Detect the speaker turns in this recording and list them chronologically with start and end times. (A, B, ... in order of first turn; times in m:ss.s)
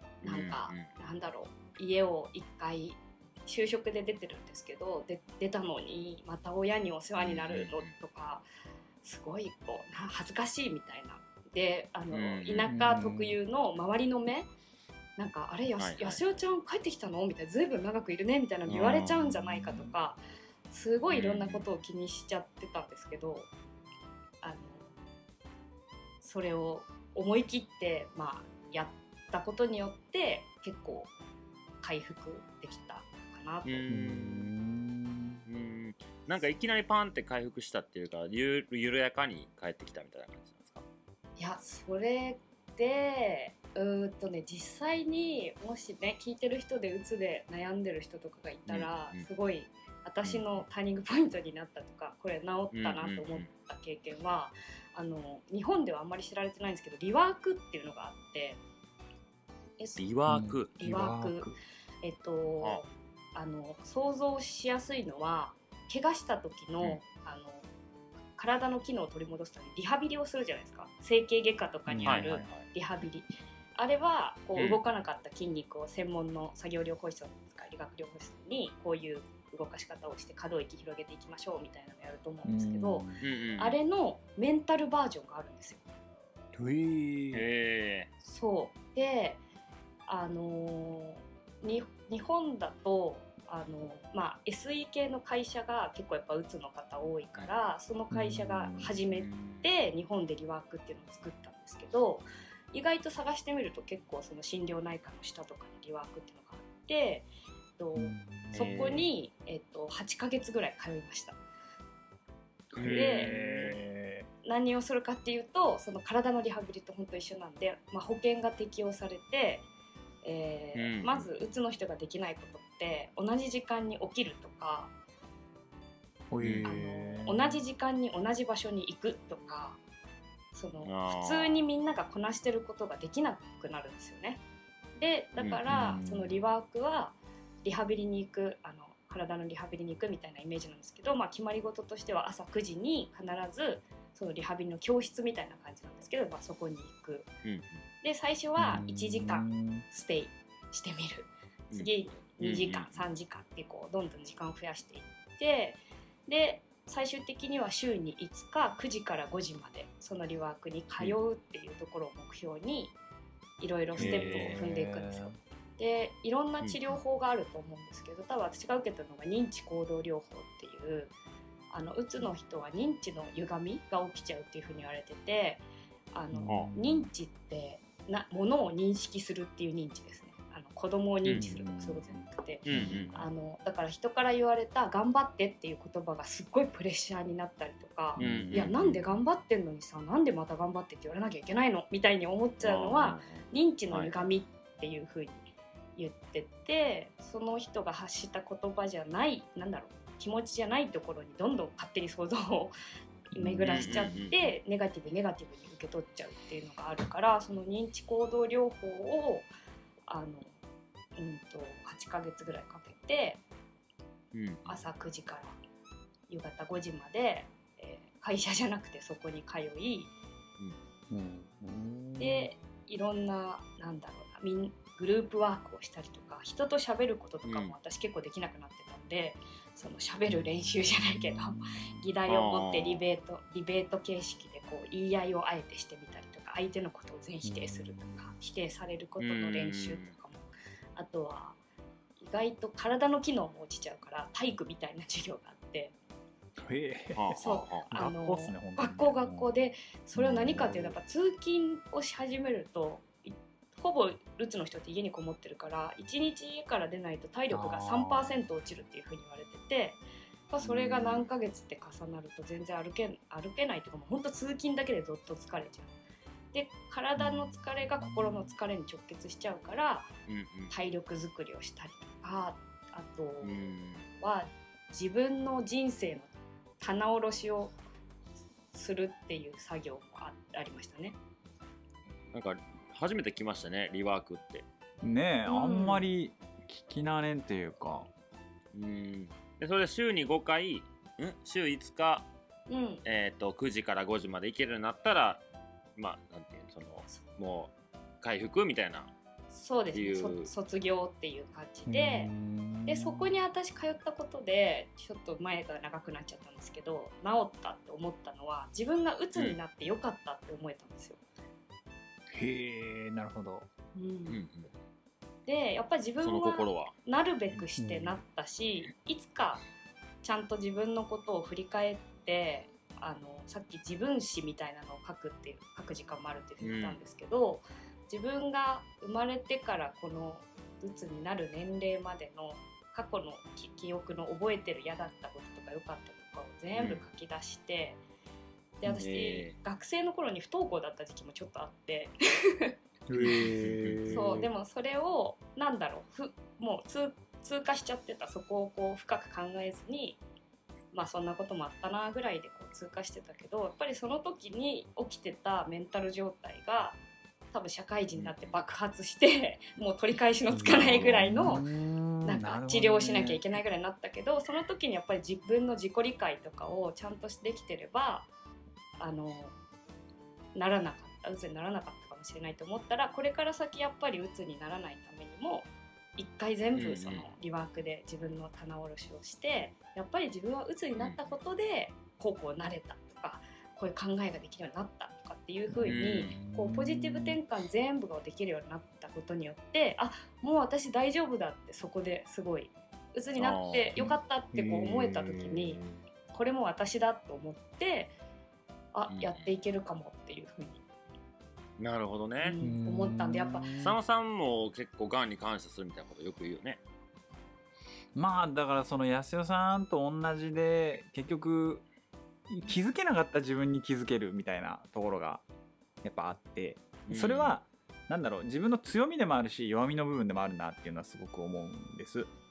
0:00.2-0:00.9 A
0:00.2-0:08.4 B
0:07.2-0:07.9 A
0:09.0-0:14.5 B
0:12.1-0:12.7 A
0:12.7-0:13.4 C
0:15.2-0:23.5 B
0:15.8-0:16.2 A
0:18.7-0:19.2 A
0:18.7-0:19.9 C
0:21.1-0:21.7 A
0:24.4-0:24.9 B
0:26.2-0:31.1 B
0:31.8-0:33.9 B
0:33.6-0:34.5 A
0:33.9-0:35.4 C
0:35.5-0:40.8 A
0:41.4-0:58.6 B
0:48.7-0:49.2 A
0:50.2-0:50.6 A
0:52.7-0:53.5 A
0:59.8-1:00.1 B
1:00.0-1:00.8 A
1:00.3-1:01.6 C
1:00.7-1:01.5 B
1:02.0-1:07.6 B
1:08.4-1:25.8 B
1:11.9-1:12.5 C
1:12.0-1:12.7 A
1:14.6-1:14.8 A
1:22.4-1:23.2 C
1:23.2-1:23.8 A
1:26.5-1:27.5 C
1:27.3-1:28.1 A
1:28.2-1:29.4 B
1:30.1-1:51.4 B
1:38.1-1:38.9 C
1:39.1-1:39.7 A
1:48.0-1:49.1 C
1:48.5-1:49.0 A
1:52.7-1:54.3 C
1:52.8-1:53.8 A
1:52.9-1:53.7 B
1:54.4-1:59.7 B
2:00.2-2:04.9 B
2:00.8-2:01.3 A
2:06.3-2:07.6 C
2:06.4-2:06.7 A
2:06.6-2:09.8 B
2:10.5-2:14.4 B
2:10.8-2:11.6 A
2:15.0-2:27.3 B
2:15.4-2:15.6 A
2:15.7-2:16.4 C
2:27.4-2:27.8 A
2:28.0-2:42.9 B
2:28.6-2:29.9 C
2:31.7-2:33.1 A
2:43.6-2:51.1 B
2:44.0-2:44.6 A
2:44.0-2:45.4 C
2:46.6-2:46.9 A
2:51.7-3:22.8 B
2:56.3-2:57.1 C
3:01.2-3:01.5 A
3:01.3-3:03.3 C
3:02.7-3:03.1 A
3:08.2-3:08.7 C
3:08.2-3:09.0 A
3:12.6-3:14.3 A
3:23.4-3:24.1 C
3:23.4-3:29.5 B
3:23.7-3:24.5 A
3:30.1-3:30.5 B
3:31.2-3:33.4 B
3:34.3-3:34.8 A
3:34.7-3:35.6 B
3:36.3-3:40.1 B
3:41.1-3:42.5 C
3:42.2-4:01.6 B
3:47.4-3:47.8 A
3:51.2-3:51.7 C
3:52.3-3:53.0 A
3:57.4-3:58.4 C
3:59.2-4:00.1 A
4:02.2-4:05.9 B
4:06.6-4:09.5 C
4:07.2-4:07.9 A
4:07.4-4:25.9 B
4:10.2-4:11.0 C
4:17.5-4:18.4 C
4:20.6-4:21.3 C
4:26.5-4:30.1 B
4:27.2-4:28.5 C
4:30.3-4:30.7 A
4:30.7-4:33.6 B
4:33.4-4:34.1 A
4:34.2-4:36.3 B
4:36.8-4:37.8 B
4:38.7-4:41.2 B
4:42.3-4:44.7 A
4:45.0-4:48.1 C
4:45.5-4:46.1 B
4:48.7-4:52.3 A
4:52.7-4:53.0 B
4:53.0-4:55.4 A
4:56.0-4:59.1 A
4:59.5-5:02.3 B
4:59.9-5:00.5 A
5:01.9-5:03.3 C
5:02.9-5:11.2 B
5:12.3-5:13.7 C
5:14.0-5:14.4 B
5:14.3-5:14.7 A
5:15.5-5:19.6 B
5:16.2-5:16.9 A
5:17.8-5:18.2 C
5:20.2-5:38.0 B
5:26.6-5:27.0 A
5:36.8-5:37.0 A
5:38.8-5:42.7 B
5:39.0-5:39.6 A
5:43.1-5:44.5 C
5:43.2-5:44.2 A
5:44.1-5:50.2 B
5:50.9-5:57.0 B
5:57.5-6:01.6 B
6:00.5-6:03.5 C
6:00.6-6:01.6 A
6:02.2-6:08.3 B
6:09.0-6:09.5 B
6:10.6-6:38.1 B
6:16.8-6:17.3 A
6:25.7-6:27.4 C
6:25.9-6:26.4 A
6:33.4-6:34.0 A
6:34.0-6:36.0 C
6:38.9-6:40.8 B
6:39.1-6:39.5 A
6:41.8-6:42.6 A
6:42.4-6:43.7 B
6:42.6-6:44.0 C
6:43.8-6:46.8 A
6:48.2-6:51.8 C
6:52.5-6:55.4 C
6:56.0-7:02.3 C
6:57.0-6:57.6 A